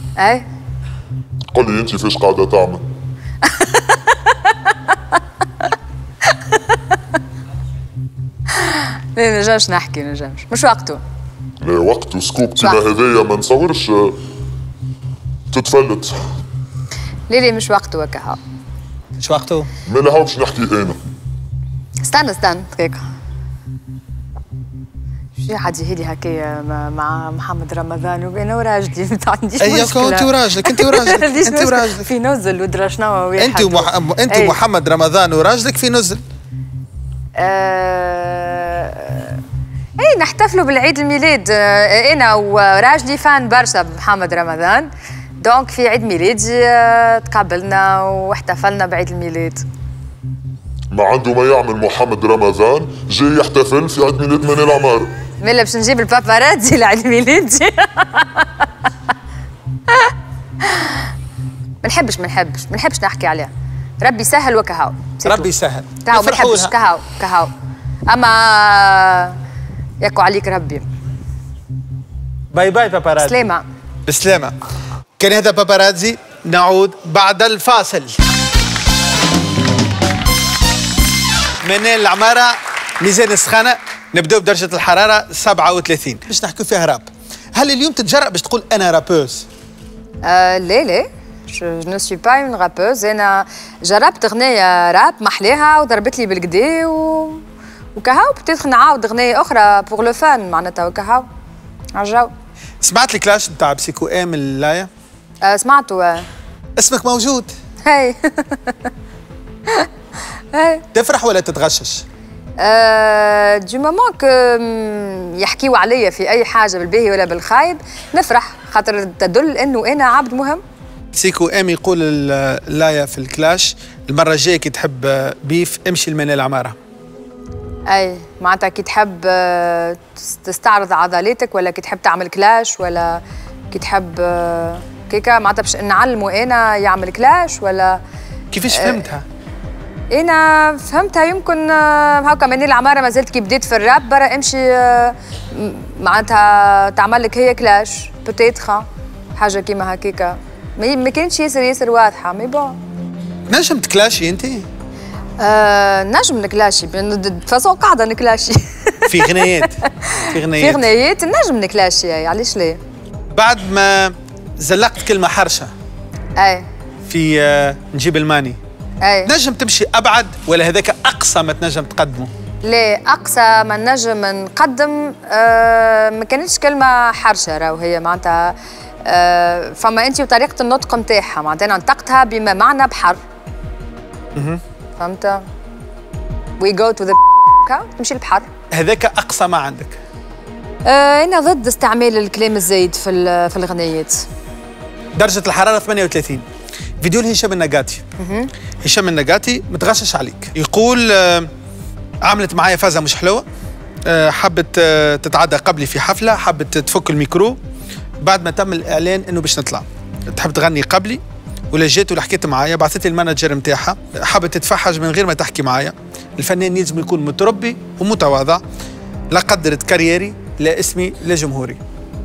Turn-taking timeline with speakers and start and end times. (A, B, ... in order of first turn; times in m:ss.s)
0:00.2-0:00.4 A
0:01.5-0:02.8 B
0:03.4-0:04.7 A
0:06.3-0:06.8 A
0:08.5-0:11.0 A
0:11.6-0:14.2 B
0:15.5-0:16.2 B
0:17.3-0:18.4 A
0:19.2-0:19.7 C
0:19.9-0:21.0 B
0:22.0-0:23.0 A
0:25.4-0:34.6 A
0:29.6-0:32.1 C
0:33.4-0:36.2 C
0:37.4-0:39.4 A
0:40.0-0:49.6 A
0:50.9-0:55.1 B
0:55.4-0:58.7 A
0:59.9-1:01.1 A
1:01.8-1:05.5 A
1:05.2-1:06.7 C
1:06.0-1:07.5 A
1:08.1-1:09.4 A
1:10.0-1:10.8 A
1:12.5-1:13.4 C
1:13.2-1:13.7 A
1:14.1-1:14.6 C
1:15.2-1:18.2 C
1:21.6-1:29.5 C
1:30.2-1:37.4 A
1:38.0-1:41.3 A
1:41.9-1:42.3 A
1:42.8-1:44.9 C
1:45.4-1:46.3 A
1:46.8-1:47.5 C
1:47.8-1:48.9 A
1:50.5-1:50.8 A
1:50.9-1:52.0 C
1:52.6-2:00.6 A
2:01.1-2:06.8 C
2:07.9-2:18.0 A
2:18.5-2:19.2 C
2:18.7-2:19.0 A
2:20.1-2:32.8 A
2:33.5-2:34.7 C
2:35.4-2:42.8 A
2:39.1-2:39.8 C
2:40.3-2:40.9 C
2:43.3-2:45.7 C
2:46.4-2:46.7 A
2:47.1-2:48.6 C
2:49.0-2:49.3 A
2:49.2-2:52.3 C
2:52.6-3:03.2 A
3:04.4-3:04.6 C
3:05.0-3:05.4 A
3:06.6-3:08.5 A
3:08.7-3:10.0 C
3:10.8-3:14.3 A
3:15.2-3:16.4 C
3:17.0-3:18.0 C
3:18.2-3:18.5 A
3:18.8-3:21.5 C
3:22.2-3:23.4 C
3:24.0-3:27.6 C
3:28.2-3:38.6 C
3:39.3-3:41.8 C